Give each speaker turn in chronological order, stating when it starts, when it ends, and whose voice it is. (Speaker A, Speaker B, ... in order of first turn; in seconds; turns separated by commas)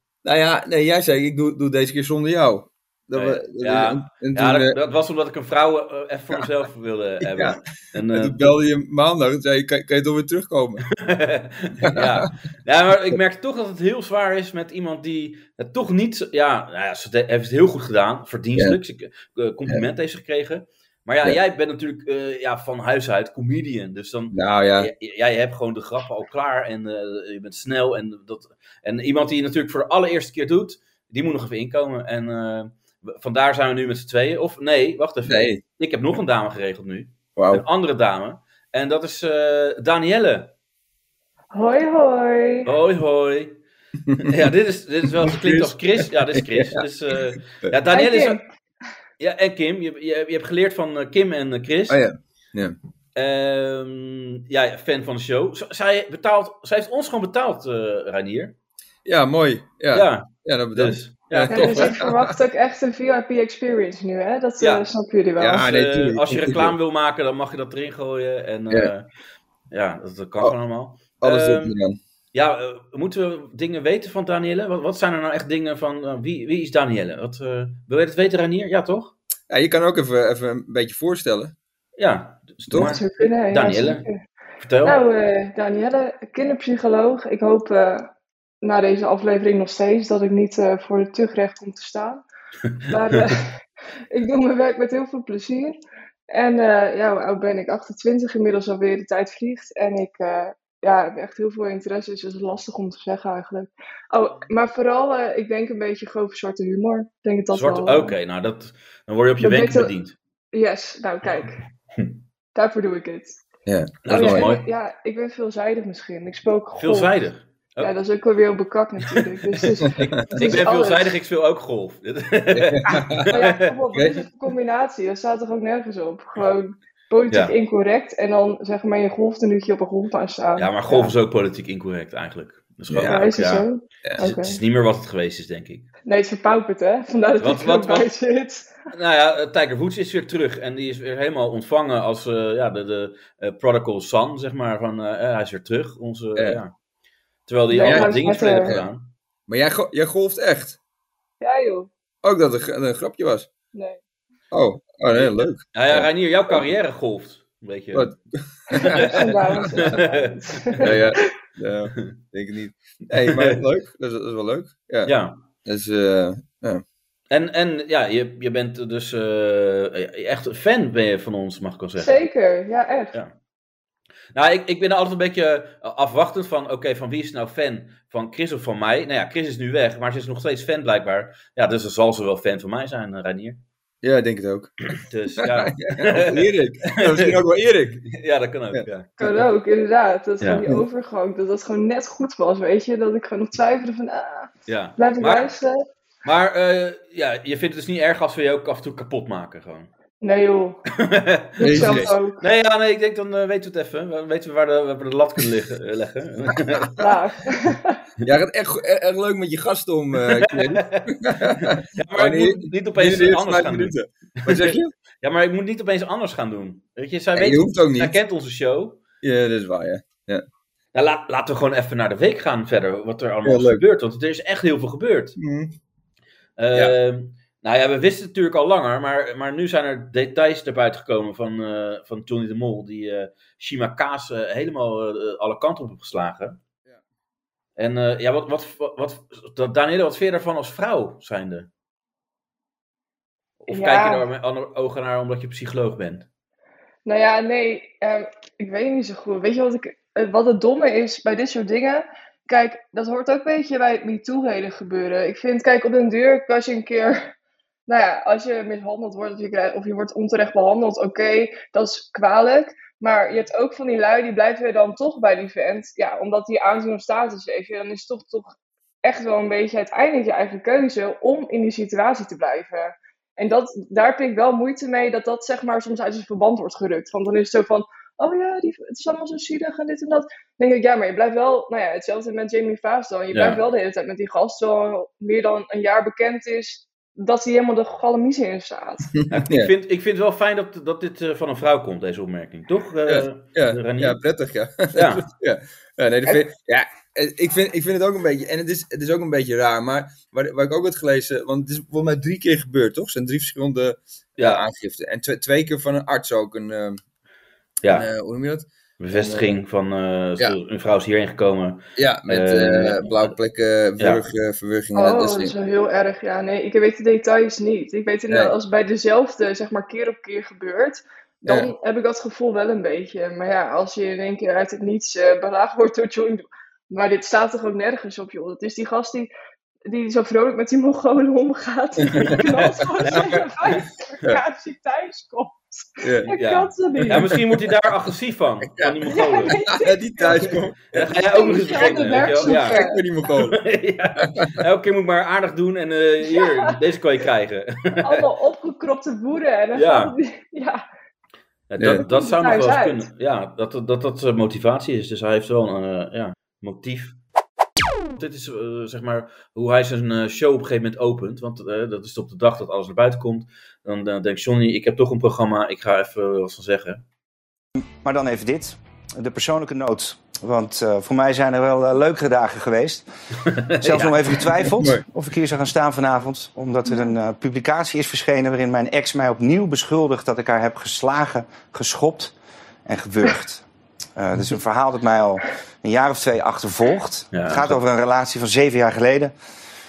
Speaker A: 0.2-4.7, Speaker B: 3.1-8.5, Speaker A: 7.2-10.8, Speaker B: 11.0-40.5, Speaker A: 11.8-12.3, Speaker A: 24.3-24.9, Speaker A: 35.3-35.6, Speaker A: 37.4-37.6, Speaker C: 41.5-42.7, Speaker B: 42.6-43.6, Speaker A: 44.1-44.5, Speaker B: 44.2-48.4, Speaker A: 45.2-46.8, Speaker C: 47.9-48.4, Speaker B: 49.2-52.0, Speaker A: 51.9-52.8, Speaker B: 53.1-58.5, Speaker A: 59.0-62.4, Speaker B: 59.9-62.0, Speaker C: 61.5-65.6, Speaker B: 64.6-64.8, Speaker A: 65.4-66.8, Speaker B: 65.5-69.0, Speaker B: 69.7-71.8, Speaker A: 71.2-72.0, Speaker B: 72.3-79.1, Speaker A: 79.5-81.5, Speaker B: 82.0-84.0, Speaker A: 82.7-83.0, Speaker C: 82.8-84.2, Speaker B: 84.6-85.0, Speaker C: 84.8-88.1, Speaker C: 88.6-92.2, Speaker B: 92.9-93.2, Speaker C: 92.9-93.5, Speaker C: 94.1-108.1, Speaker B: 107.5-110.2, Speaker C: 109.4-109.9, Speaker C: 110.5-111.5, Speaker C: 112.5-113.4, Speaker A: 113.6-114.5, Speaker B: 114.0-114.7, Speaker C: 114.1-117.2, Speaker B: 116.8-118.0, Speaker C: 117.8-121.1, Speaker B: 119.0-123.7, Speaker A: 119.8-120.6, Speaker A: 122.5-123.3, Speaker C: 123.3-131.1, Speaker A: 123.9-124.2, Speaker B: 127.3-127.5, Speaker B: 130.6-135.9, Speaker A: 132.9-133.2, Speaker C: 133.1-134.6, Speaker C: 136.1-138.7, Speaker B: 137.4-138.1, Speaker B: 138.9-146.7, Speaker B: 147.4-149.1, Speaker C: 147.7-148.7, Speaker A: 147.8-148.9, Speaker A: 149.5-150.8, Speaker C: 151.4-151.9, Speaker A: 152.2-153.5, Speaker C: 153.7-154.0, Speaker A: 154.5-156.6, Speaker B: 155.1-158.1, Speaker A: 157.9-160.0, Speaker C: 158.7-161.3, Speaker B: 158.8-161.0, Speaker A: 160.8-166.8, Speaker B: 163.2-163.6, Speaker B: 165.0-165.4, Speaker B: 167.3-172.2, Speaker C: 172.0-173.1, Speaker B: 174.3-183.6, Speaker A: 184.0-188.1, Speaker B: 184.9-187.4, Speaker B: 188.0-189.1, Speaker A: 188.7-189.4, Speaker C: 189.2-195.8, Speaker B: 190.4-190.7, Speaker B: 194.7-195.5, Speaker B: 196.2-199.9, Speaker C: 200.2-200.8, Speaker B: 200.9-207.0, Speaker C: 201.6-202.4, Speaker A: 201.6-202.1, Speaker C: 207.0-208.0, Speaker A: 208.2-214.9, Speaker B: 210.2-219.0, Speaker A: 217.3-218.2, Speaker A: 219.2-220.4, Speaker B: 220.9-225.4, Speaker A: 223.4-223.8, Speaker A: 225.4-225.7, Speaker B: 226.6-236.6, Speaker B: 237.8-241.7, Speaker B: 243.6-246.3, Speaker C: 243.7-244.2, Speaker C: 247.0-257.3, Speaker C: 257.9-268.5, Speaker C: 269.0-289.1, Speaker B: 283.3-283.6, Speaker A: 289.1-289.7, Speaker B: 289.3-294.2, Speaker A: 293.1-307.0, Speaker B: 294.9-295.3, Speaker B: 304.4-304.6, Speaker B: 307.8-308.1, Speaker A: 307.9-309.5, Speaker B: 309.0-313.4, Speaker A: 312.0-315.5, Speaker B: 314.0-314.2, Speaker C: 314.9-329.3, Speaker A: 318.3-318.5, Speaker A: 321.4-321.7, Speaker C: 329.9-337.3, Speaker A: 332.0-332.5, Speaker B: 333.0-333.8, Speaker A: 333.0-333.5, Speaker A: 336.0-336.4, Speaker B: 336.3-339.6, Speaker A: 337.0-337.7, Speaker A: 338.7-343.6, Speaker C: 339.1-340.4, Speaker B: 340.9-342.8, Speaker C: 341.3-343.0, Speaker B: 343.4-348.3, Speaker A: 344.4-344.6, Speaker C: 346.3-346.7, Speaker C: 348.0-350.8, Speaker B: 349.7-350.1, Speaker B: 351.7-357.2, Speaker A: 351.8-352.1, Speaker C: 352.1-353.1, Speaker B: 358.1-367.0, Speaker D: 368.0-373.0, Speaker B: 373.8-374.4, Speaker D: 373.8-382.3, Speaker A: 374.7-375.0, Speaker D: 382.9-383.6, Speaker D: 384.1-389.3, Speaker B: 387.3-387.8